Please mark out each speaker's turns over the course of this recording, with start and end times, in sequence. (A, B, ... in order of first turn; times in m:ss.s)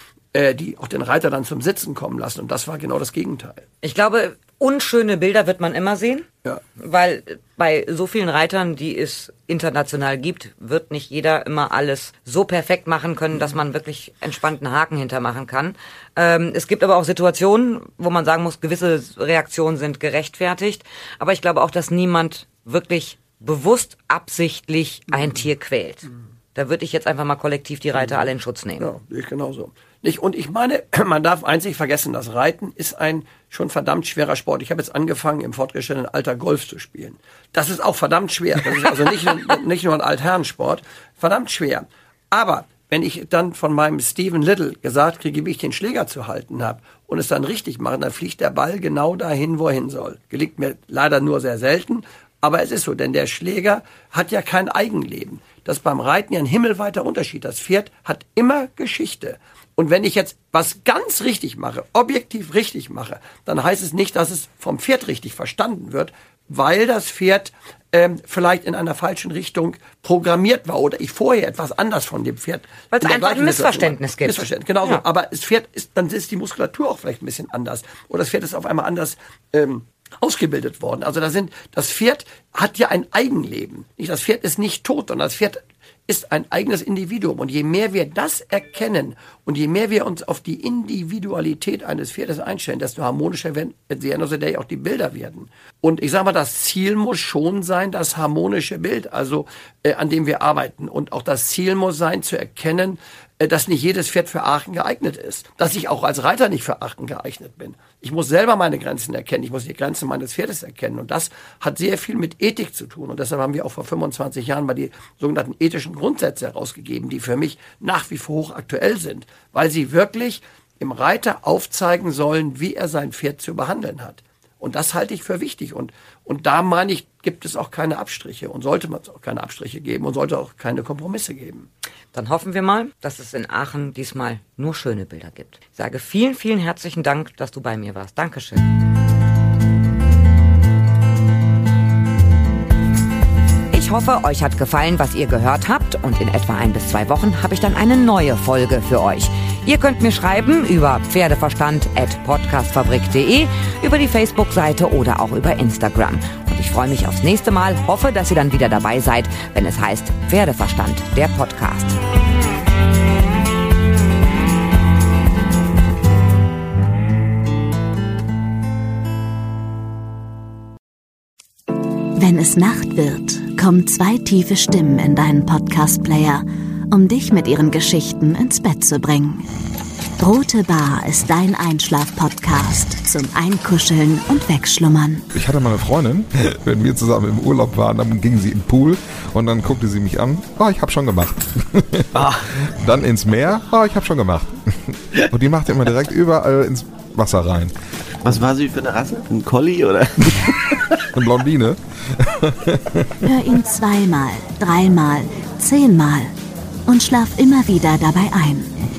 0:00.3-0:03.6 A
0:03.8-0:28.8 B
0:28.8-2:11.7 A
1:12.9-1:15.0 B
2:12.1-2:18.6 B
2:23.7-2:42.0 B
2:52.2-2:59.4 C
3:00.2-3:05.2 C
3:05.3-3:17.7 D
3:12.1-3:12.5 E
3:18.2-3:20.9 E
3:20.3-3:23.2 D
3:23.2-3:26.3 C
3:26.8-3:28.7 C